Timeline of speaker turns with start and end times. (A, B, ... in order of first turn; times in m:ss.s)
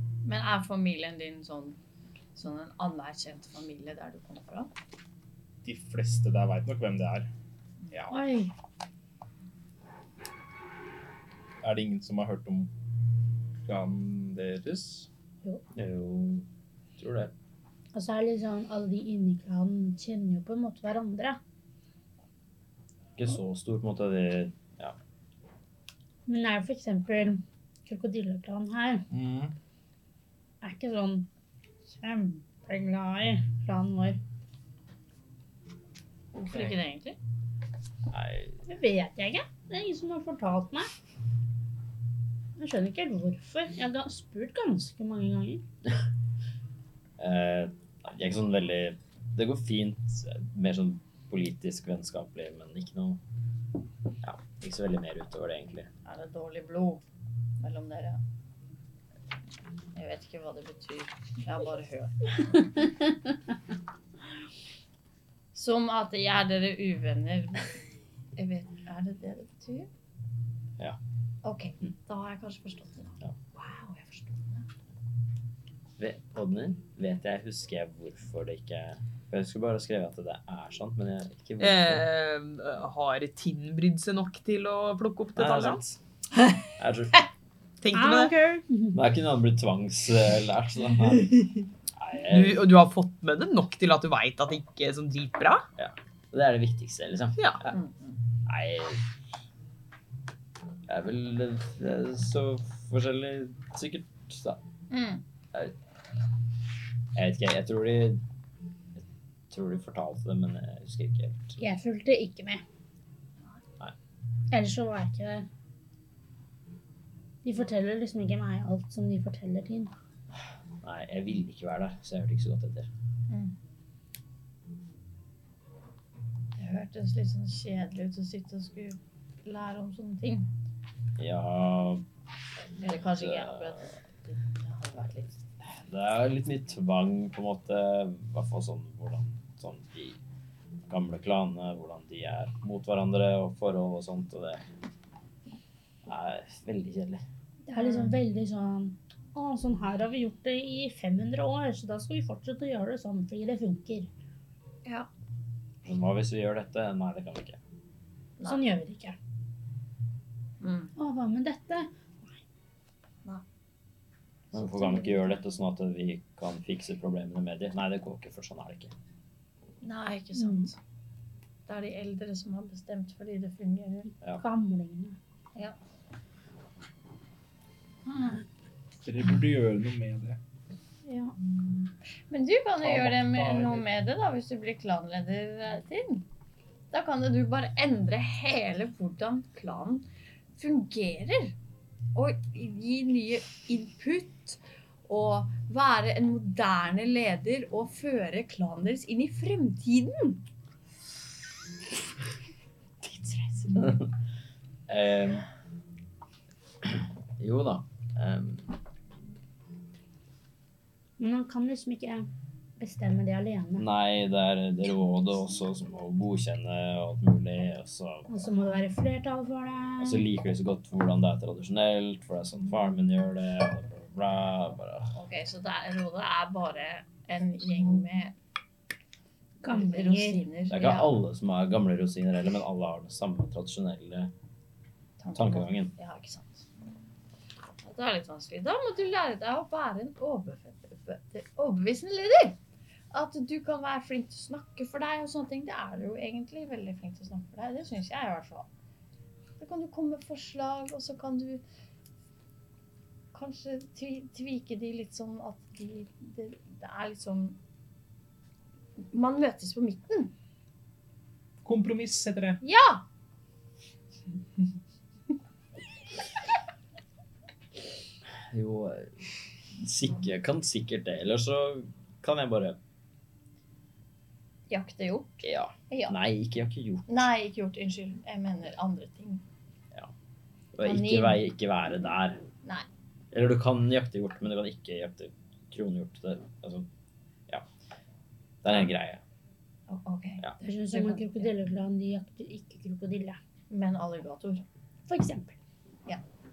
0:00.2-0:01.8 A
0:02.4-0:04.7 A
0:05.6-0:07.3 B
0:07.9-0:08.2 B
0:08.1-0:08.5 C
0:11.6-0:12.7 B
0:13.6-0:15.1 B
0:15.8-0:16.5 D
0:17.0-0:17.3 D
0:17.9-0:21.4 C
0:23.2-0:25.0 D
0:26.3-0:29.1 C
0:29.1-0:29.6 B
0:30.6-0:31.3 C
0:31.9-0:34.2 C
0:36.4-0:37.2 A
0:38.1-0:38.6 D
0:38.7-0:40.9 C
0:42.6-0:45.6 C
0:47.2-0:53.2 D
0:54.2-0:55.9 D
0:56.0-0:57.0 A
0:57.6-0:58.2 A
0:59.9-1:02.6 A
1:05.5-1:07.8 A
1:08.4-1:09.9 A
1:11.4-1:14.7 A
1:16.0-1:22.0 D
1:21.6-1:25.8 E
1:25.4-1:26.0 D
1:26.8-1:27.2 D
1:27.8-1:28.3 E
1:27.9-1:29.0 C
1:28.9-1:31.4 D
1:32.0-1:32.6 D
1:32.3-1:35.7 E
1:35.8-1:37.7 D
1:37.4-1:37.6 E
1:37.7-1:38.2 A
1:38.5-1:39.0 D
1:40.9-1:44.6 D
1:44.9-1:45.2 A
1:47.2-1:48.2 D
1:49.0-1:51.6 D
1:51.6-1:52.6 C
1:54.5-1:55.5 C
1:57.4-1:59.9 C
2:00.8-2:02.9 D
2:03.3-2:03.6 A
2:06.6-2:10.5 A
2:11.2-2:12.0 D
2:12.8-2:15.4 A
2:13.1-2:13.8 D
2:15.8-2:20.2 D
2:20.9-2:24.7 D
2:26.1-2:27.2 D
2:27.7-2:34.1 C
2:27.8-2:28.2 A
2:35.8-2:37.6 D
2:38.4-2:38.7 A
2:38.4-2:39.2 C
2:40.6-2:40.9 A
2:41.0-2:42.4 C
2:44.5-2:48.9 D
2:49.8-2:50.8 A
2:50.4-2:50.7 C
2:51.7-2:54.1 A
2:54.4-2:55.2 C
2:58.1-2:58.4 A
2:59.0-3:00.4 B
3:01.1-3:01.3 C
3:02.3-3:06.3 A
3:02.8-3:03.9 B
3:06.9-3:10.0 A
3:10.6-3:11.6 A
3:12.1-3:20.4 A
3:23.0-3:23.7 A
3:23.7-3:24.1 D
3:24.9-3:25.5 D
3:26.8-3:28.7 D
3:31.2-3:33.9 C
3:33.8-3:38.3 D
3:38.3-3:40.2 C
3:40.0-3:45.1 D
3:45.2-3:48.4 A
3:49.6-3:50.4 C
3:49.7-3:51.2 A
3:50.7-3:54.3 D
3:55.2-3:56.7 A
3:55.3-3:55.9 D
3:57.8-4:02.6 A
4:03.1-4:08.7 A
4:09.6-4:11.6 A
4:13.3-4:17.6 A
4:19.1-4:20.3 A
4:21.6-4:22.6 B
4:22.6-4:23.0 A
4:28.5-4:32.8 D
4:34.7-4:36.2 A
4:35.4-4:37.3 D
4:37.1-4:39.4 A
4:40.8-4:42.4 D
4:40.8-4:41.4 A
4:43.3-4:46.9 D
4:48.6-4:49.2 D
4:49.9-4:51.5 A
4:50.6-4:53.4 C
4:53.7-4:54.6 A
4:55.1-4:55.6 C